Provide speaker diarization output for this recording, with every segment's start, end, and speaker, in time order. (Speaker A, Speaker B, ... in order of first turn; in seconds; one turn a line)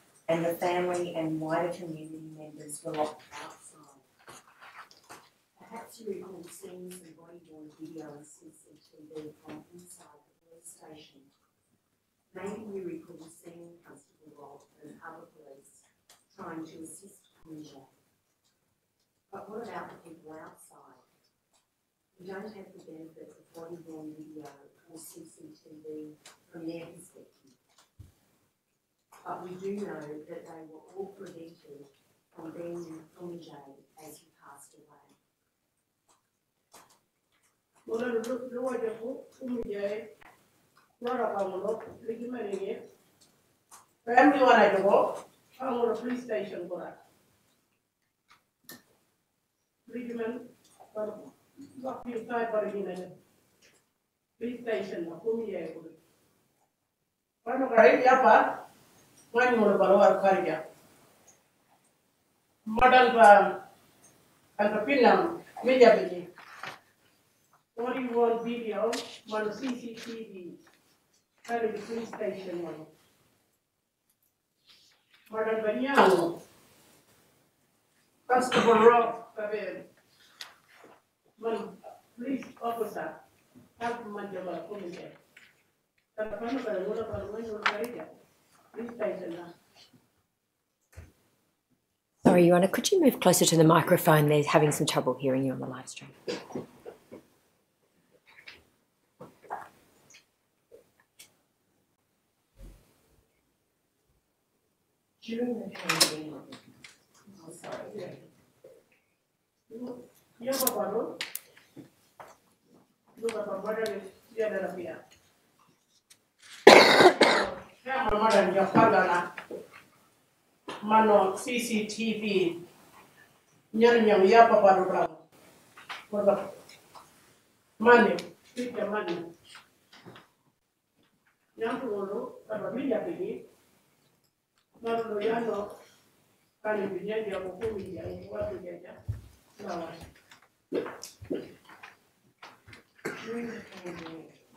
Speaker A: 0.3-4.1
Speaker A: 5.6-11.3
Speaker A: 12.3-17.9
Speaker A: 19.3-21.1
Speaker A: 22.1-27.6
Speaker A: 29.2-35.1
Speaker B: 37.9-40.1
Speaker B: 41.0-42.8
Speaker B: 44.0-47.0
Speaker B: 49.9-53.1
Speaker B: 54.4-56.0
Speaker B: 57.4-58.6
Speaker B: 59.3-60.6
Speaker B: 62.7-63.6
Speaker B: 64.6-66.3
Speaker B: 67.7-70.6
Speaker B: 71.4-72.9
Speaker B: 75.3-76.4
Speaker B: 78.3-79.9
Speaker B: 81.4-83.2
Speaker B: 83.8-85.2
Speaker B: 86.1-88.2
Speaker B: 88.7-89.5
Speaker C: 92.2-96.2
Speaker A: 105.2-106.7
Speaker A: 107.3-108.2
Speaker B: 109.7-111.2
Speaker B: 113.2-115.0
Speaker B: 117.0-119.3
Speaker B: 120.8-122.6
Speaker B: 123.7-125.2
Speaker B: 126.1-126.5
Speaker B: 127.8-129.3
Speaker B: 131.6-133.4
Speaker B: 134.8-135.7
Speaker B: 136.6-138.9
Speaker B: 139.6-140.0
Speaker A: 143.2-144.4